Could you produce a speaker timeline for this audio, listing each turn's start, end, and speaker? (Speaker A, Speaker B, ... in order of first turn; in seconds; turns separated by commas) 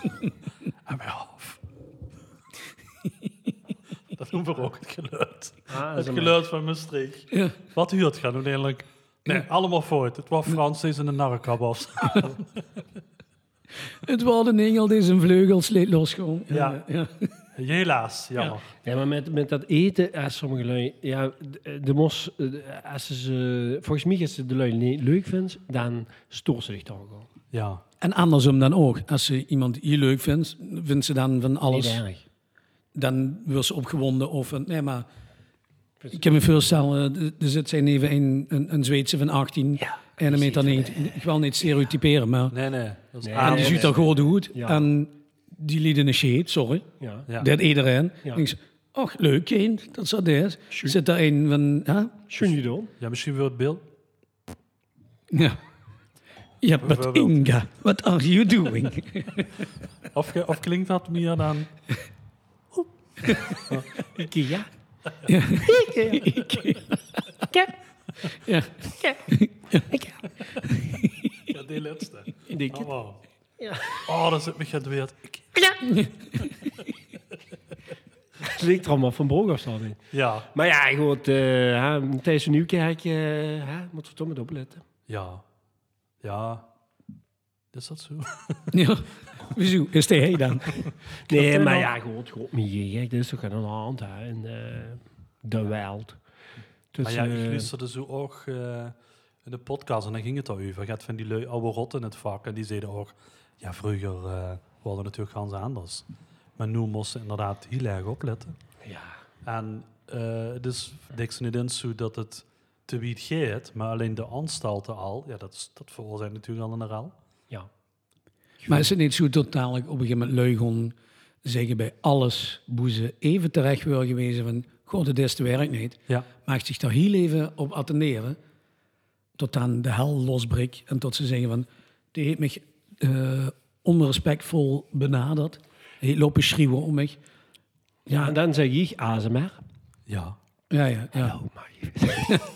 Speaker A: 0.8-1.6, Speaker A: 4.1-12.5, Speaker B: 5.7-6.4, Speaker C: 14.0-17.3, Speaker A: 16.5-16.8, Speaker A: 17.5-18.7, Speaker B: 18.8-27.3, Speaker A: 27.5-27.8, Speaker C: 28.0-32.0, Speaker B: 31.7-32.2, Speaker C: 32.9-35.1, Speaker B: 36.0-36.7, Speaker C: 36.1-42.5, Speaker B: 39.8-41.1, Speaker A: 42.5-44.0, Speaker B: 43.2-44.0, Speaker C: 43.4-52.2, Speaker B: 44.5-44.9, Speaker B: 47.0-47.3, Speaker B: 50.7-51.0, Speaker B: 52.3-52.9, Speaker A: 53.0-53.8, Speaker C: 55.3-55.6, Speaker C: 56.6-59.6, Speaker A: 56.8-57.5, Speaker A: 60.1-61.7, Speaker B: 64.1-64.7, Speaker C: 65.2-66.9, Speaker B: 65.6-66.4, Speaker C: 68.3-69.9, Speaker B: 69.9-70.2, Speaker C: 70.7-71.3, Speaker A: 71.5-73.2, Speaker B: 72.5-72.9, Speaker B: 73.6-74.0, Speaker A: 74.0-75.9, Speaker B: 78.4-80.0, Speaker A: 80.1-80.5, Speaker B: 80.5-84.8, Speaker A: 85.1-85.4, Speaker A: 86.2-86.6, Speaker A: 87.7-88.6, Speaker C: 88.7-91.9, Speaker B: 91.3-96.2, Speaker B: 96.9-97.7, Speaker A: 97.0-106.0, Speaker A: 106.6-108.5, Speaker B: 108.8-109.2, Speaker A: 109.4-117.1, Speaker B: 118.6-118.9, Speaker C: 118.7-128.4, Speaker C: 129.4-137.2, Speaker C: 138.1-138.3, Speaker B: 138.1-139.6, Speaker A: 140.1-140.3, Speaker C: 140.7-141.3, Speaker B: 141.1-142.4